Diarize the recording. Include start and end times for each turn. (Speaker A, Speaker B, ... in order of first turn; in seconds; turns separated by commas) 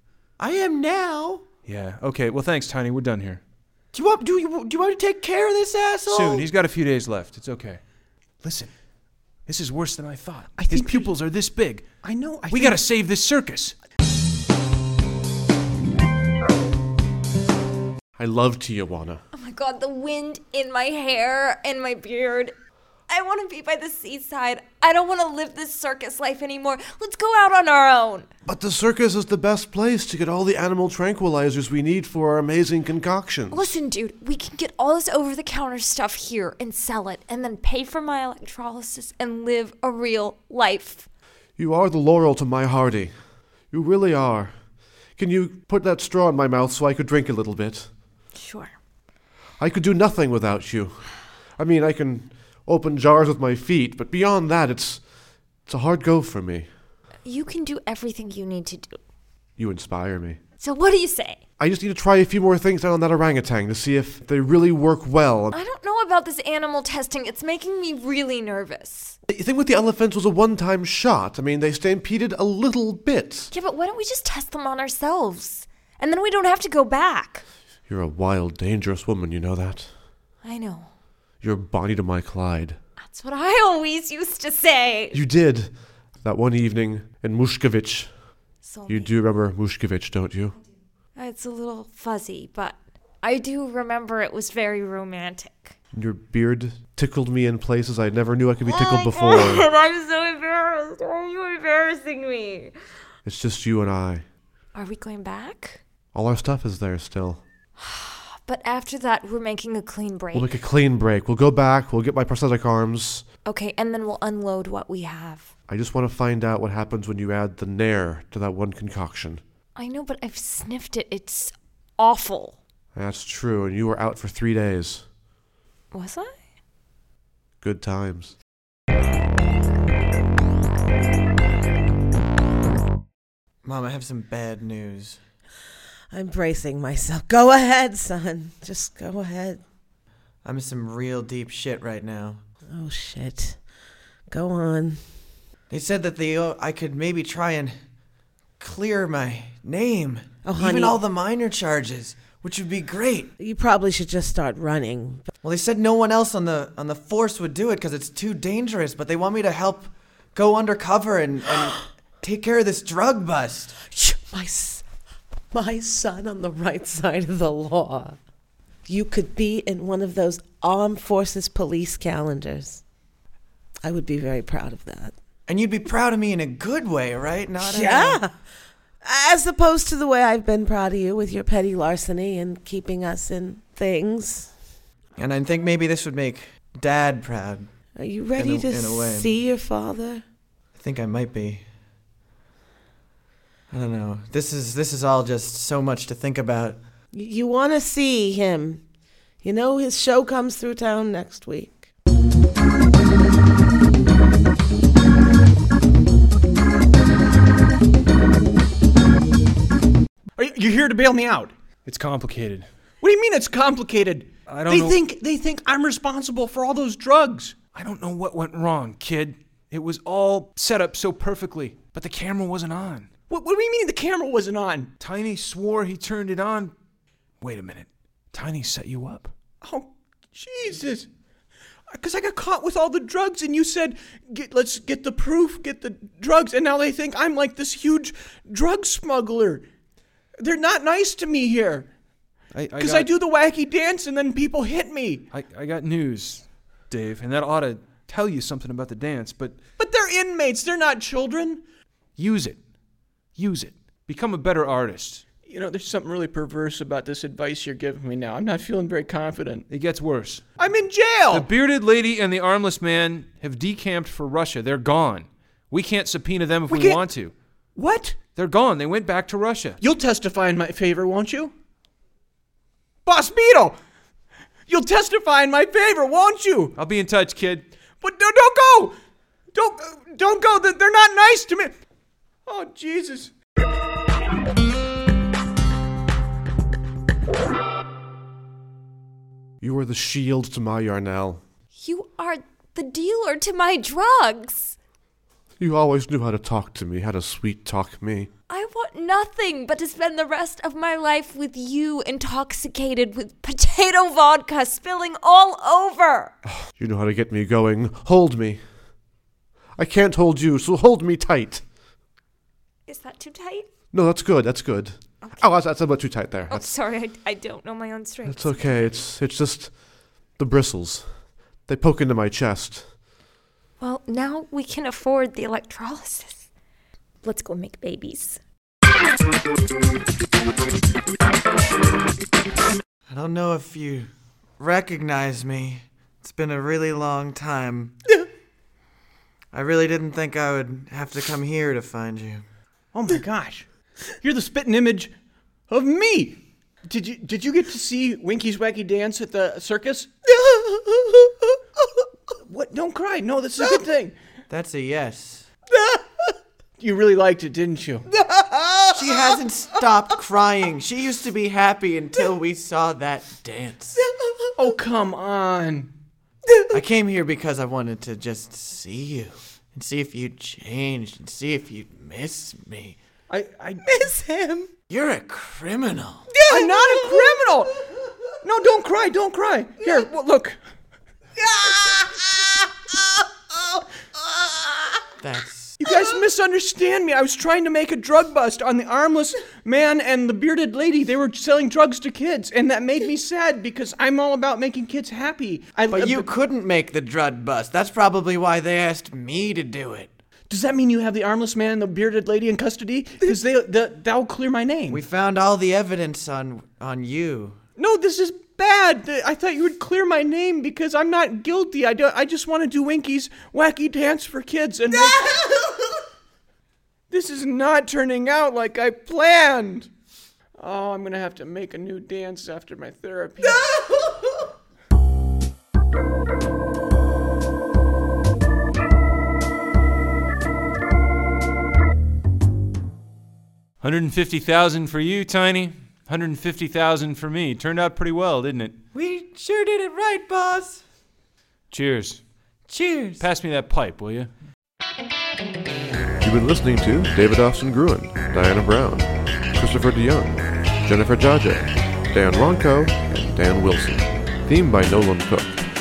Speaker A: 0.4-1.4, Speaker B: 1.6-3.4, Speaker A: 3.9-6.5, Speaker B: 6.1-7.8, Speaker B: 8.4-8.7, Speaker B: 9.5-11.9, Speaker C: 10.6-11.1, Speaker C: 12.0-12.8, Speaker B: 12.5-13.8, Speaker D: 18.2-19.2, Speaker E: 19.3-22.5, Speaker E: 23.1-28.3, Speaker D: 28.4-33.7, Speaker E: 33.5-41.1, Speaker D: 41.6-43.1, Speaker D: 43.7-44.5, Speaker D: 45.2-47.9, Speaker E: 48.4-48.7, Speaker D: 49.6-55.0, Speaker D: 55.7-56.7, Speaker E: 57.2-59.0, Speaker D: 59.6-60.4, Speaker E: 60.6-61.4, Speaker D: 61.6-65.6, Speaker E: 65.5-69.2, Speaker D: 69.3-73.5, Speaker E: 73.5-77.5, Speaker D: 77.9-79.9, Speaker E: 80.4-80.9, Speaker D: 81.4-82.8, Speaker E: 83.0-85.2, Speaker D: 85.1-85.7, Speaker D: 86.2-88.1, Speaker E: 88.6-89.2, Speaker D: 88.9-90.5, Speaker E: 91.2-95.8, Speaker D: 95.9-99.7, Speaker E: 98.7-102.7, Speaker D: 103.2-104.2, Speaker E: 104.7-105.8, Speaker D: 106.1-107.4, Speaker E: 107.8-110.5, Speaker D: 110.3-113.3, Speaker E: 113.5-115.5, Speaker D: 115.7-119.4, Speaker E: 119.8-122.6, Speaker D: 122.9-125.1, Speaker E: 125.9-126.3, Speaker D: 127.6-128.3, Speaker A: 133.6-135.2, Speaker F: 136.1-139.6, Speaker A: 140.4-142.4, Speaker F: 142.7-143.6, Speaker F: 144.3-145.2, Speaker A: 145.7-147.8, Speaker A: 148.6-153.3, Speaker F: 150.4-151.0, Speaker F: 153.4-155.3, Speaker A: 155.4-163.8, Speaker F: 163.9-164.8, Speaker F: 165.5-168.2, Speaker F: 168.9-172.8, Speaker F: 173.8-175.2, Speaker A: 175.5-178.2, Speaker F: 177.6-178.3, Speaker F: 179.0-184.5, Speaker A: 185.2-187.7, Speaker F: 188.0-190.2, Speaker A: 188.4-189.3, Speaker A: 190.8-191.7, Speaker A: 193.7-196.8, Speaker F: 197.1-198.8, Speaker F: 199.4-201.9, Speaker C: 210.4-211.5, Speaker B: 211.8-212.7, Speaker C: 213.0-217.6, Speaker B: 214.5-215.0, Speaker B: 217.7-223.1, Speaker C: 223.3-224.9, Speaker B: 225.0-226.7, Speaker B: 227.4-229.3, Speaker C: 229.6-231.1, Speaker C: 231.9-239.7, Speaker C: 240.4-241.9, Speaker B: 242.5-243.1, Speaker C: 242.8-245.2, Speaker B: 245.3-249.6, Speaker C: 249.8-251.6, Speaker B: 252.2-252.6, Speaker B: 253.4-255.2, Speaker C: 255.5-259.7, Speaker B: 259.7-260.4, Speaker C: 260.6-261.5, Speaker B: 261.3-267.3, Speaker C: 266.7-267.0, Speaker C: 267.8-268.2, Speaker B: 268.3-269.8, Speaker C: 269.8-271.5, Speaker C: 273.1-273.8, Speaker C: 274.7-276.8, Speaker B: 276.8-277.7, Speaker C: 278.0-278.9, Speaker C: 279.5-281.8, Speaker C: 282.5-283.3, Speaker D: 289.6-291.4, Speaker E: 291.7-294.8, Speaker D: 295.6-298.3, Speaker E: 298.5-306.4, Speaker D: 306.6-308.6, Speaker D: 309.8-311.6, Speaker E: 312.9-313.7, Speaker D: 313.9-316.7, Speaker E: 316.5-319.1, Speaker D: 318.3-319.7, Speaker D: 320.4-321.1, Speaker D: 321.7-322.9, Speaker E: 323.8-326.5, Speaker E: 327.2-328.4, Speaker A: 333.1-337.9, Speaker A: 339.5-342.4, Speaker C: 342.9-343.7, Speaker C: 344.2-345.1, Speaker C: 345.7-350.1, Speaker C: 352.4-354.2, Speaker A: 354.5-355.5, Speaker C: 355.7-356.1, Speaker C: 356.8-358.1, Speaker F: 358.6-358.9, Speaker A: 358.9-364.0, Speaker F: 364.0-364.8, Speaker C: 364.6-365.9, Speaker A: 366.7-373.0, Speaker C: 373.3-374.1, Speaker F: 373.9-374.7, Speaker A: 374.9-376.3, Speaker F: 376.3-377.4, Speaker C: 376.5-377.7, Speaker C: 378.4-380.6, Speaker F: 381.4-382.0, Speaker A: 385.2-385.8, Speaker C: 385.8-396.3, Speaker A: 395.9-400.1, Speaker C: 400.5-405.0, Speaker A: 404.9-407.6, Speaker C: 407.8-415.6, Speaker C: 417.1-419.9, Speaker C: 420.6-423.6, Speaker B: 433.8-438.8, Speaker A: 438.9-440.8, Speaker B: 441.7-442.2, Speaker A: 442.7-443.3, Speaker B: 443.2-444.3, Speaker D: 446.2-455.6